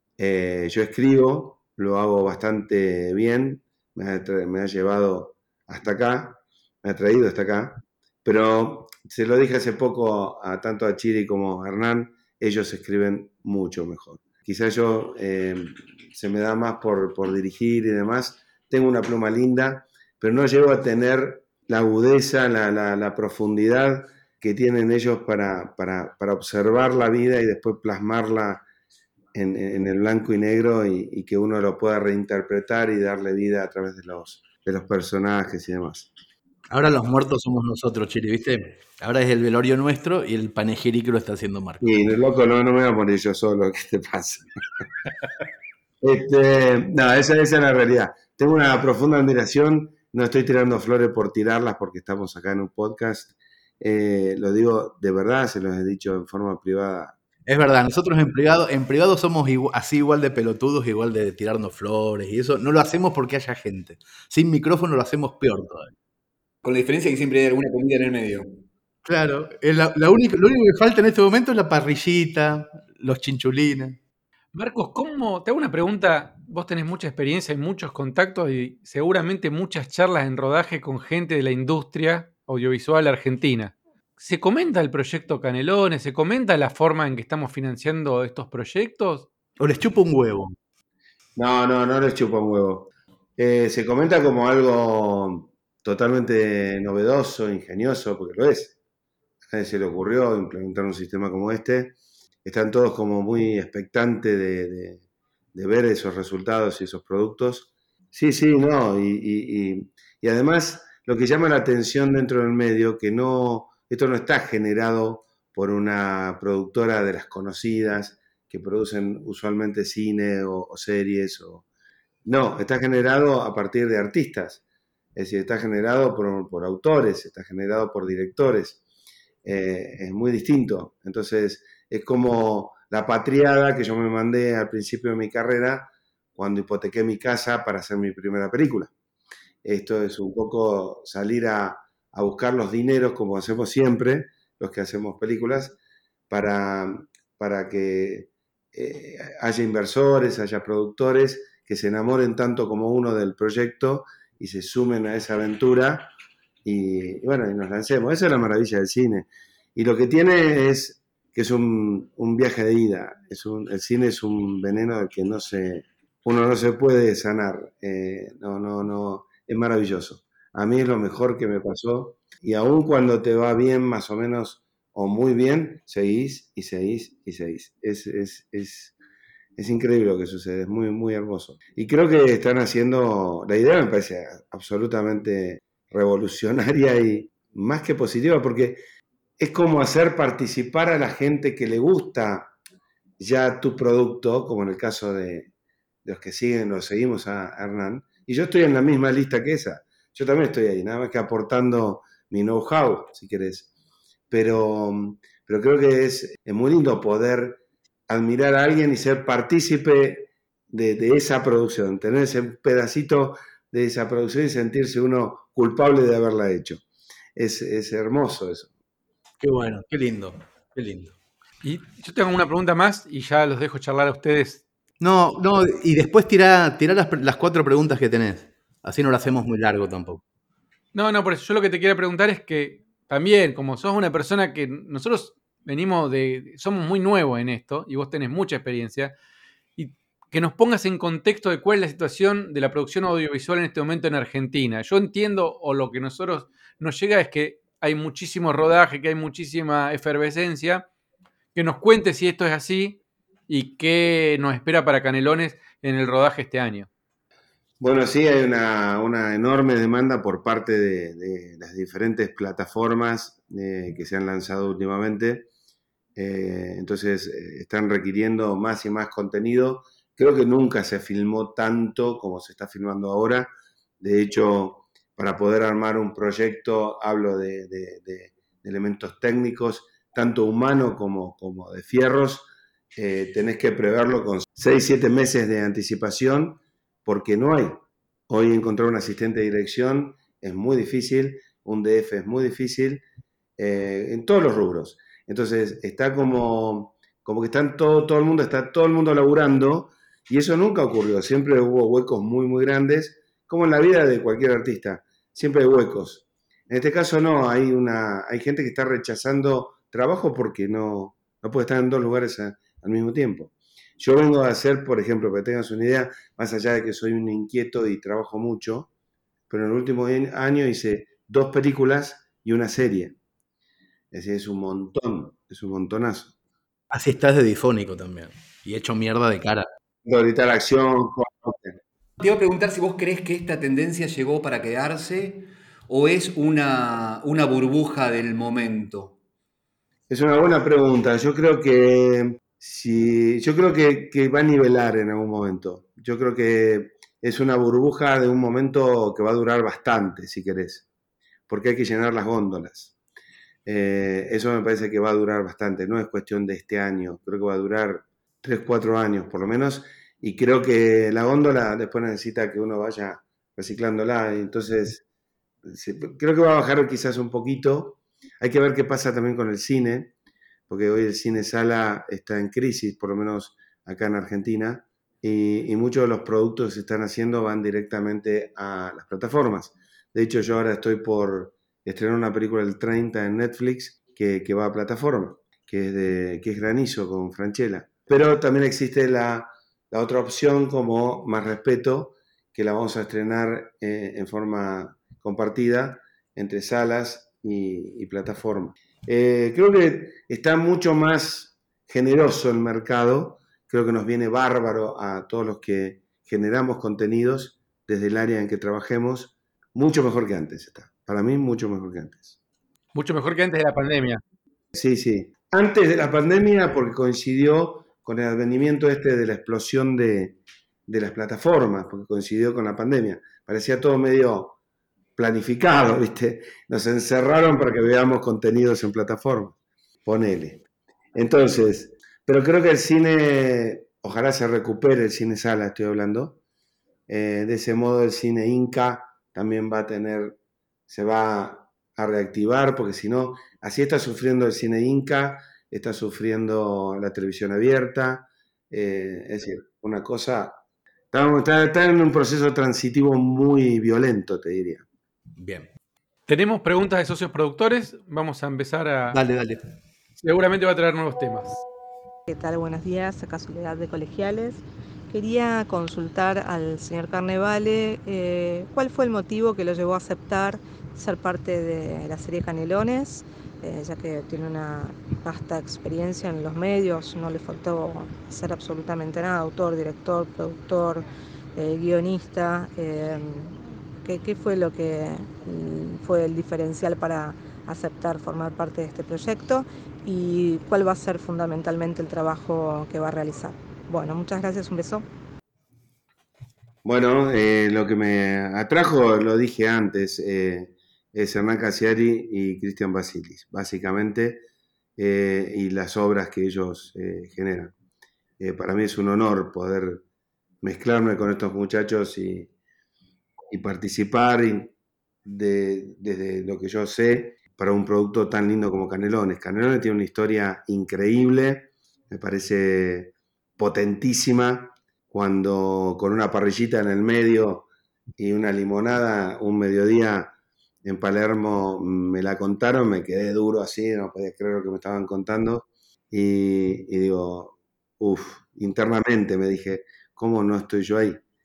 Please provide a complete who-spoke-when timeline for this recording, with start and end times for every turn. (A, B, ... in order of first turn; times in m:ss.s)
0:00.2-0:28.6 A
0:29.3-0:36.1 A
0:36.7-0:41.8 B
0:41.8-0:44.8 A
0:46.0-0:57.1 A
0:57.4-1:05.9 B
1:06.6-1:08.6 C
1:09.0-1:14.0 B
1:14.5-1:29.3 D
1:29.6-1:30.6 B
1:31.4-1:38.7 A
1:39.5-1:45.0 A
1:45.5-2:01.6 A
2:02.2-2:04.6 A
2:05.2-2:08.8 A
2:09.4-2:18.9 A
2:19.6-2:25.8 A
2:26.3-2:36.1 A
2:36.6-2:58.9 A
2:59.6-3:08.8 A
3:09.4-3:12.5 A
3:13.2-3:15.5 A
3:16.0-3:23.7 A
3:24.3-3:36.8 A
3:37.4-3:38.7 A
3:39.4-3:41.1 B
3:41.6-3:44.6 D
3:45.0-3:50.2 B
3:50.9-3:59.1 D
3:59.8-4:10.8 D
4:11.5-4:16.9 D
4:17.8-4:25.5 A
4:26.2-4:53.0 A
4:53.6-5:18.9 A
5:19.5-5:23.2 A
5:24.1-5:26.3 A
5:26.9-5:29.7 B
5:30.0-5:31.8 A
5:32.2-5:39.1 C
5:40.1-5:50.8 A
5:51.5-5:52.9 A
5:53.6-6:05.0 A
6:05.6-6:10.1 A
6:10.7-6:52.4 A
6:52.9-6:54.2 D
6:54.7-7:04.6 A
7:05.2-7:10.6 A
7:11.1-7:16.4 A
7:17.1-7:20.4 A
7:20.9-7:30.6 A
7:31.1-7:34.8 A
7:35.4-7:35.7 B
7:36.3-7:39.2 D
7:39.1-7:39.6 B
7:40.2-7:41.6 D
7:42.3-8:15.0 E
8:16.8-8:24.4 A
8:25.0-8:27.7 A
8:28.4-8:30.0 A
8:30.6-8:32.5 A
8:33.5-8:34.7 A
8:35.2-8:47.6 A
8:48.2-8:50.3 A
8:50.8-9:01.2 A